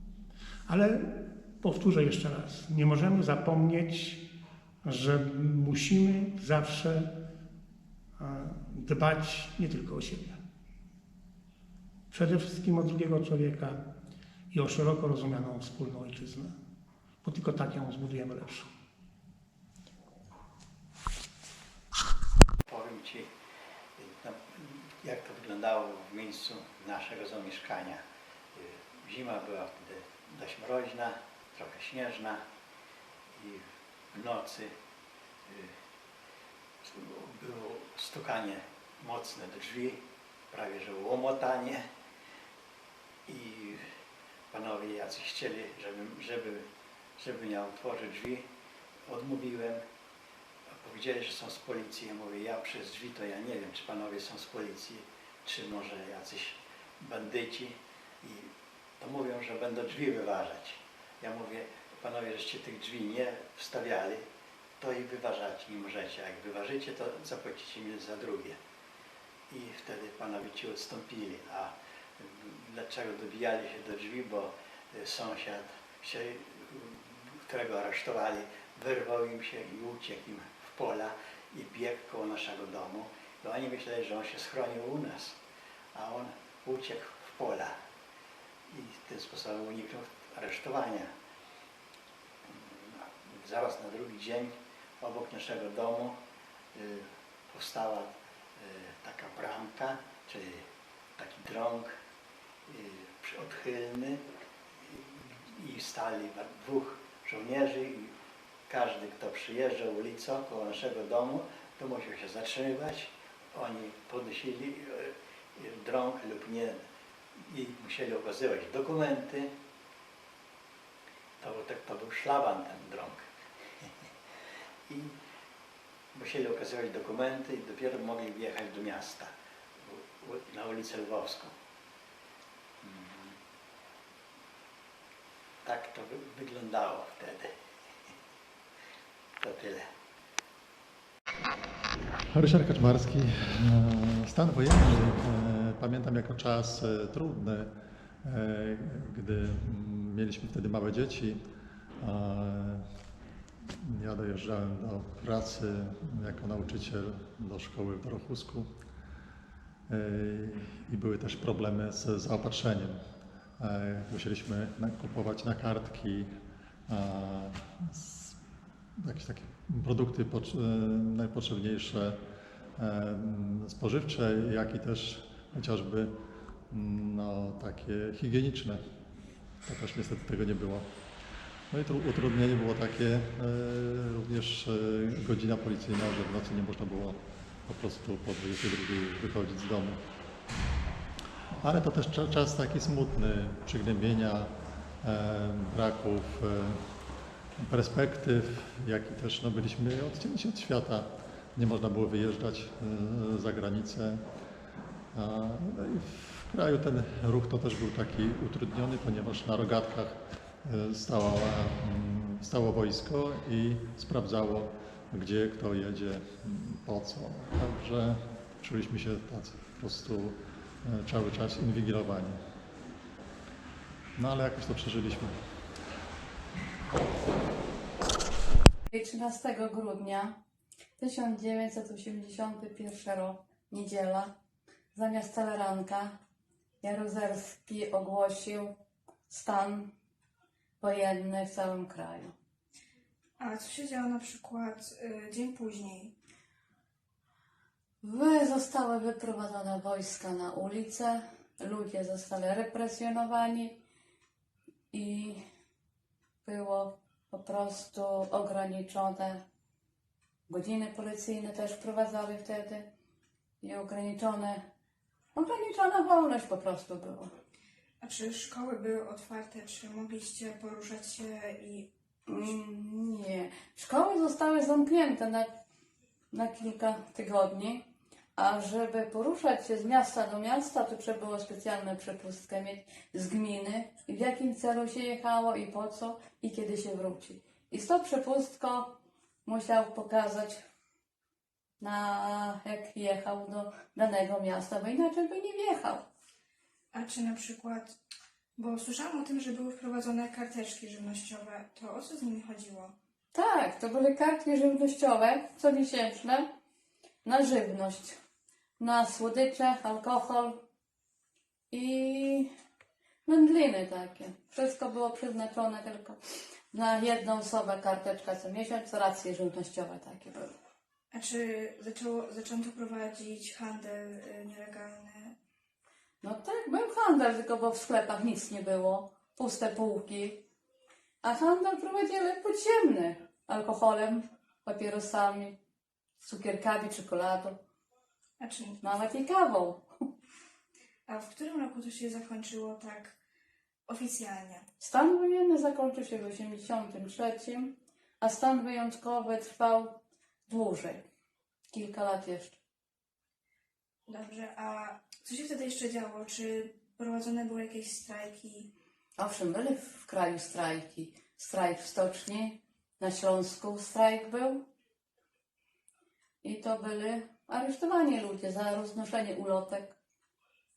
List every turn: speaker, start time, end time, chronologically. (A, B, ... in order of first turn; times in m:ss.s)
0:00.7-0:04.3 A
0:04.8-0:07.1 A
0:08.2-0:10.4 A
0:12.1-0:13.8 A
0:14.5-0:16.6 A
0:17.2-0:18.7 A
0:22.7-0:23.3 B
0:24.0-0:28.0 B
0:28.6-0:32.4 B
0:33.4-0:33.6 B
0:34.1-0:34.7 B
0:36.8-0:40.0 B
0:40.5-0:41.8 B
0:43.3-0:43.8 B
0:44.5-0:46.6 B
0:47.2-0:48.4 B
0:49.1-0:49.8 B
0:50.7-0:58.5 B
0:59.0-1:04.2 B
1:04.8-1:08.6 B
1:09.5-1:25.4 B
1:25.9-1:27.7 B
1:28.7-1:31.1 B
1:32.5-1:36.1 B
1:36.7-1:38.1 B
1:38.6-1:40.6 B
1:41.2-1:41.8 B
1:42.7-1:44.2 B
1:44.9-1:48.1 B
1:48.7-1:56.8 B
1:57.4-1:59.5 B
2:01.4-2:03.2 B
2:06.1-2:09.3 B
2:09.8-2:11.5 B
2:12.8-2:13.3 B
2:15.6-2:17.5 B
2:19.4-2:19.8 B
2:22.3-2:31.4 C
2:32.0-2:32.9 C
2:33.7-2:38.7 C
2:39.9-2:43.0 C
2:43.6-2:46.3 C
2:46.9-2:48.4 C
2:49.0-2:52.2 C
2:52.8-2:56.1 C
2:56.7-2:58.8 C
2:59.6-3:00.9 C
3:01.7-3:10.0 C
3:11.5-3:16.8 C
3:17.6-3:24.2 C
3:25.1-3:42.4 C
3:44.2-3:45.4 C
3:48.9-3:50.4 D
3:51.0-3:54.3 D
3:54.9-3:56.2 D
3:56.8-3:58.7 D
3:59.3-3:59.9 D
4:00.8-4:02.3 D
4:03.4-4:06.1 E
4:08.0-4:13.8 D
4:14.9-4:15.4 D
4:16.4-4:19.4 D
4:20.5-4:22.9 D
4:23.6-4:24.6 D
4:25.3-4:27.3 D
4:28.0-4:31.9 E
4:32.3-4:35.5 D
4:36.3-4:37.8 D
4:38.4-4:50.6 D
4:51.8-4:56.0 D
4:56.9-4:58.0 E
4:58.6-5:02.9 E
5:03.3-5:06.5 D
5:07.2-5:08.2 D
5:08.8-5:10.6 D
5:11.7-5:12.5 D
5:13.2-5:16.2 D
5:16.7-5:20.5 D
5:21.1-5:25.4 E
5:26.2-5:30.4 D
5:31.2-5:35.6 D
5:36.2-5:37.6 D
5:38.4-5:38.8 E
5:38.8-5:39.8 D
5:41.1-5:43.2 E
5:43.9-5:44.7 E
5:44.8-5:51.0 D
5:51.7-5:52.6 D
5:54.1-5:58.7 E
5:59.2-6:04.6 D
6:06.4-6:10.0 D